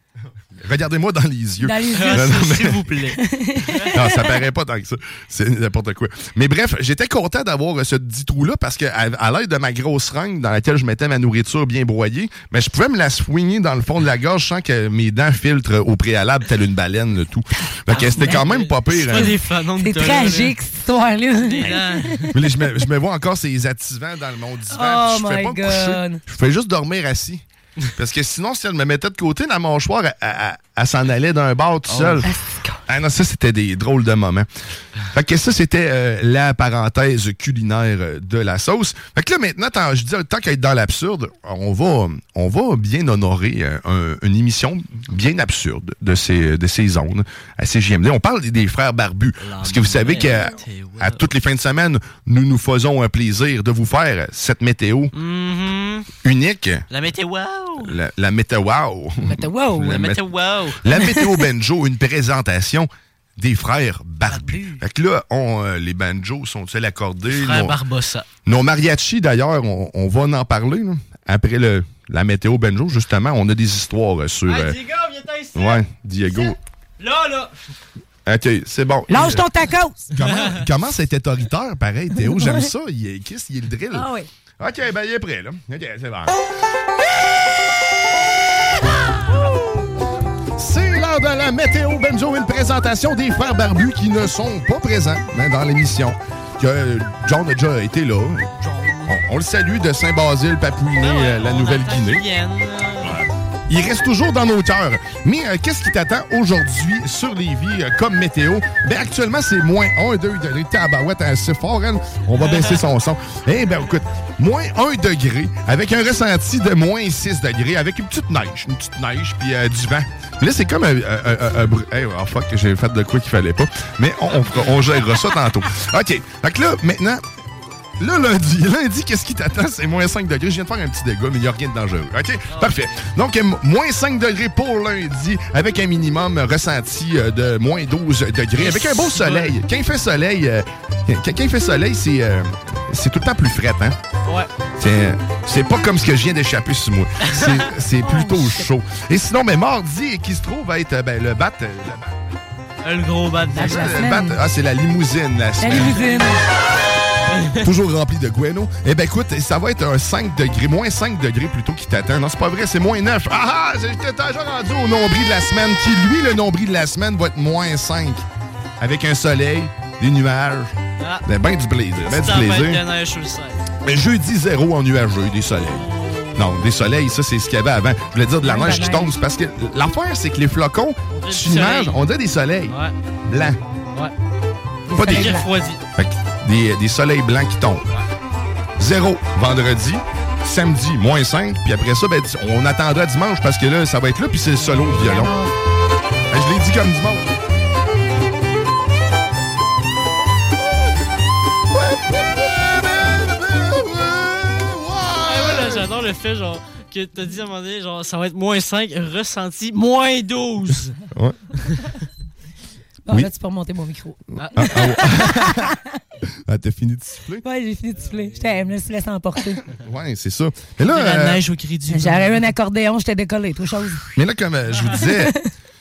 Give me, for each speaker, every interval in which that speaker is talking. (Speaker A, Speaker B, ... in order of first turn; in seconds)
Speaker A: 0.6-2.8, 3.9-19.4, 22.3-27.4, 27.9-32.3, 32.9-34.5, 35.1-55.1, 56.2-56.8, 57.8-60.2, 60.8-67.8, 68.5-74.8, 75.5-76.5, 78.2-79.5, 80.1-86.3, 90.6-98.5, 99.1-102.2, 103.0-127.2, 128.0-143.9, 144.8-152.1, 153.5-156.1, 157.6-168.2, 168.8-170.7, 171.2-172.8, 173.8-182.8, 183.3-183.6, 184.9-185.3, 186.0-187.8, 188.8-195.3, 196.3-197.3, 201.8-205.8, 211.1-211.5, 214.5-215.7, 216.3-217.4, 219.8-221.4, 224.2-225.3
Speaker B: 1.6-2.5, 3.2-4.1, 19.1-22.3, 24.7-26.2, 32.2-32.8, 59.2-60.0, 79.1-80.0, 82.2-82.7, 83.9-84.3, 148.1-148.6, 153.5-154.4, 155.6-156.4, 178.4-179.1, 184.9-185.5, 194.6-195.5, 213.1-215.8, 217.4-219.6, 221.9-224.0, 224.9-225.5
Speaker C: 1.9-3.9, 17.9-20.5, 21.4-22.3, 31.9-32.2, 49.4-51.3, 55.1-56.1, 56.9-57.9, 59.8-60.8, 64.3-64.8, 67.3-68.2, 74.5-77.5, 80.2-80.6, 98.6-99.2, 101.0-103.2, 112.4-112.8, 124.4-124.7, 132.5-133.1, 138.6-139.6, 147.3-147.6, 152.8-153.9, 157.3-157.6, 171.0-171.2, 172.0-173.7, 175.7-176.9, 181.1-182.0, 182.7-182.9, 185.0-185.8, 205.2-210.9, 211.6-211.9, 214.4-214.9, 220.8-222.4